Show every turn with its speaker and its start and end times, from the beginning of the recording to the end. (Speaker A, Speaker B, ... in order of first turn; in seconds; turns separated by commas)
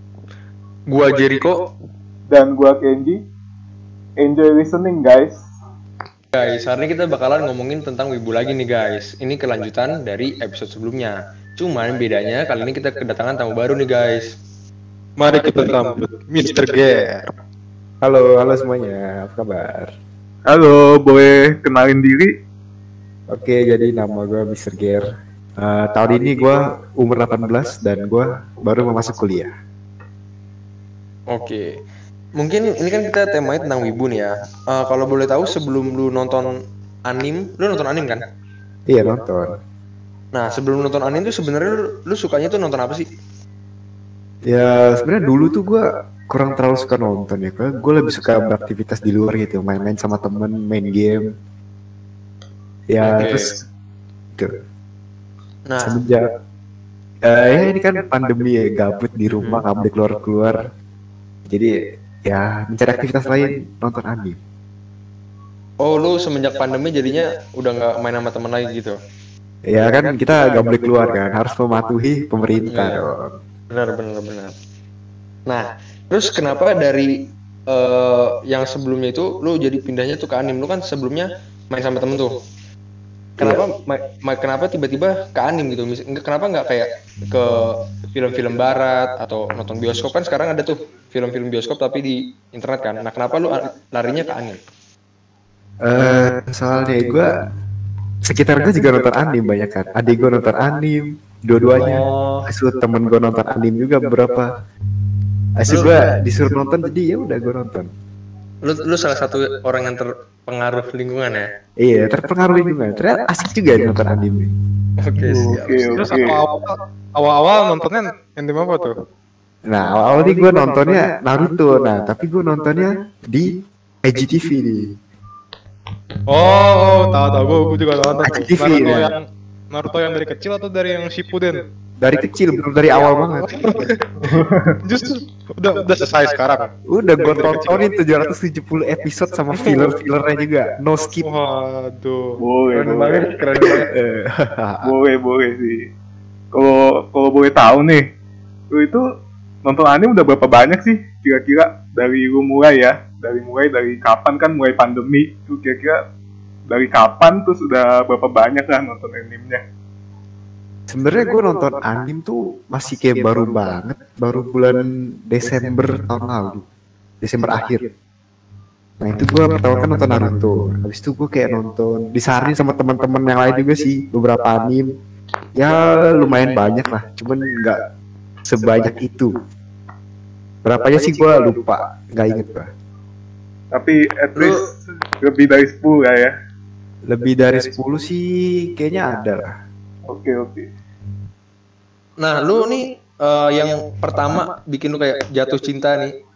Speaker A: 0.9-1.6, Speaker B: 2.3-3.2, Speaker B: 4.2-5.4, Speaker A: 6.3-14.3, Speaker C: 15.2-17.3, Speaker D: 18.0-19.9, Speaker B: 20.5-22.3, Speaker D: 23.3-25.0, Speaker D: 25.6-29.5, Speaker A: 31.3-31.7, Speaker A: 32.4-36.5, Speaker A: 37.1-38.3, Speaker D: 38.9-39.6, Speaker A: 40.3-43.1, Speaker D: 44.5-51.2, Speaker D: 52.9-53.6, Speaker A: 53.0-53.5, Speaker A: 55.7-56.0, Speaker D: 55.8-56.3, Speaker D: 57.2-60.6, Speaker A: 59.3-59.6, Speaker D: 62.3-64.4, Speaker A: 65.8-69.0, Speaker D: 69.7-73.3, Speaker A: 72.7-73.0, Speaker A: 73.7-74.5, Speaker A: 75.5-77.1, Speaker A: 77.7-82.4, Speaker D: 83.4-83.7, Speaker A: 83.4-94.6, Speaker D: 95.8-97.4, Speaker D: 98.2-104.6, Speaker A: 101.8-102.5, Speaker D: 105.6-107.9, Speaker A: 105.7-106.0, Speaker A: 108.6-111.5, Speaker D: 111.8-114.5, Speaker A: 115.0-116.4, Speaker B: 115.3-116.4, Speaker C: 116.0-118.9, Speaker D: 119.7-123.5, Speaker D: 124.0-124.9, Speaker C: 126.3-131.7, Speaker D: 128.2-129.1, Speaker D: 132.0-133.8, Speaker C: 133.5-134.1, Speaker B: 134.2-134.8, Speaker C: 134.8-137.8, Speaker D: 136.9-141.3, Speaker C: 139.6-140.0, Speaker C: 141.2-142.4, Speaker B: 142.4-143.3, Speaker A: 142.7-143.9, Speaker D: 143.9-144.8, Speaker B: 144.8-145.8, Speaker B: 146.5-148.0, Speaker B: 148.7-149.0, Speaker B: 149.6-156.0, Speaker B: 156.7-159.6, Speaker D: 160.9-166.7, Speaker D: 167.2-167.9, Speaker D: 169.0-174.9, Speaker D: 175.6-177.8, Speaker D: 178.4-179.4, Speaker D: 180.7-182.7, Speaker B: 183.7-184.7, Speaker A: 184.4-184.6, Speaker B: 185.2-186.3, Speaker D: 187.1-189.5, Speaker B: 190.1-190.7, Speaker A: 192.2-196.1